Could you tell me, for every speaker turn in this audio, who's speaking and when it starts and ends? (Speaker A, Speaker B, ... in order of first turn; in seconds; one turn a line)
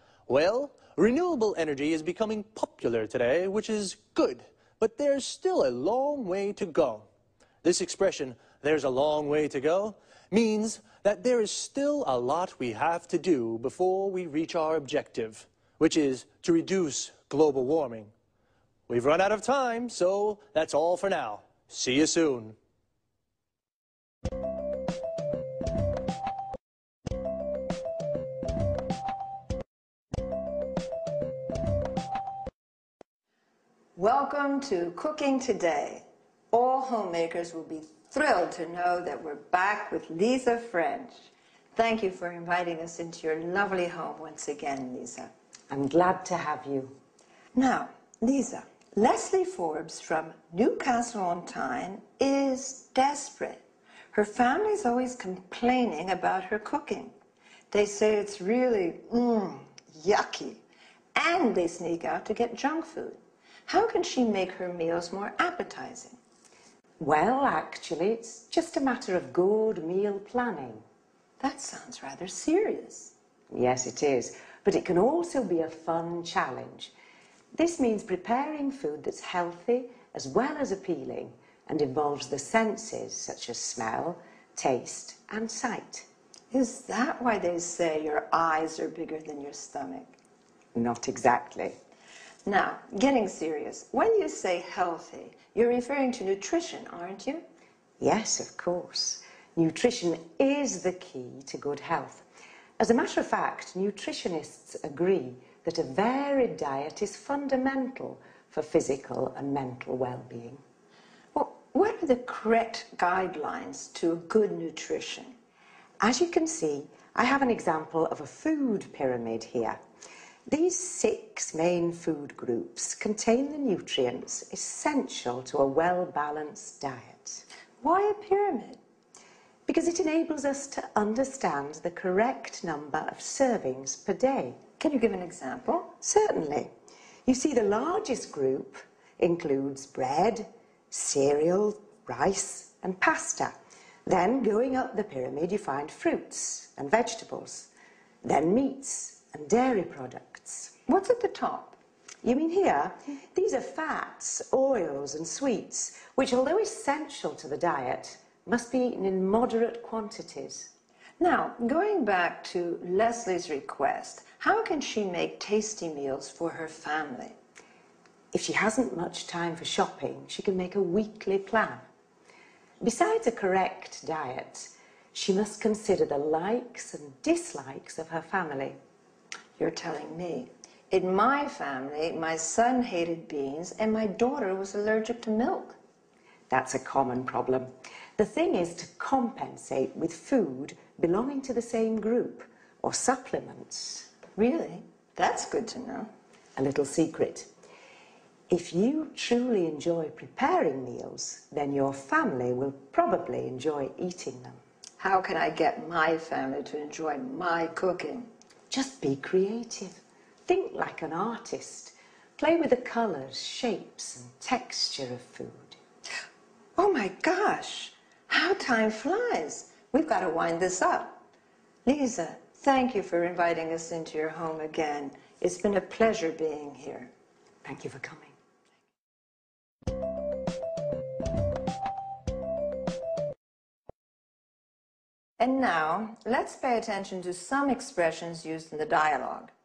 Speaker A: 0.3-7.1
Speaker A: 7.6-18.1
Speaker A: 18.9-22.6
Speaker B: 34.0-45.3
Speaker C: 45.7-47.0
Speaker B: 47.5-57.1
Speaker B: 57.7-60.6
Speaker B: 61.1-66.2
Speaker C: 67.0-70.8
Speaker B: 71.4-73.1
Speaker C: 73.5-76.9
Speaker C: 77.5-86.1
Speaker B: 86.5-90.2
Speaker C: 90.7-91.8
Speaker B: 92.5-97.4
Speaker C: 98.0-102.2
Speaker C: 102.8-110.6
Speaker B: 111.3-115.3
Speaker C: 116.0-119.8
Speaker C: 120.5-127.4
Speaker B: 127.8-128.8
Speaker C: 129.7-134.7
Speaker B: 134.7-135.9
Speaker C: 135.9-136.7
Speaker C: 137.2-147.7
Speaker C: 148.2-150.8
Speaker B: 150.8-151.8
Speaker C: 152.2-160.7
Speaker B: 161.2-167.4
Speaker C: 168.3-171.8
Speaker C: 172.8-178.8
Speaker B: 179.6-185.8
Speaker C: 186.5-194.1
Speaker B: 194.3-196.1
Speaker C: 196.6-197.5
Speaker C: 198.5-204.6
Speaker B: 205.0-208.3
Speaker C: 208.7-215.8
Speaker B: 216.8-221.2
Speaker B: 221.8-227.1
Speaker C: 227.6-228.3
Speaker B: 235.4-239.5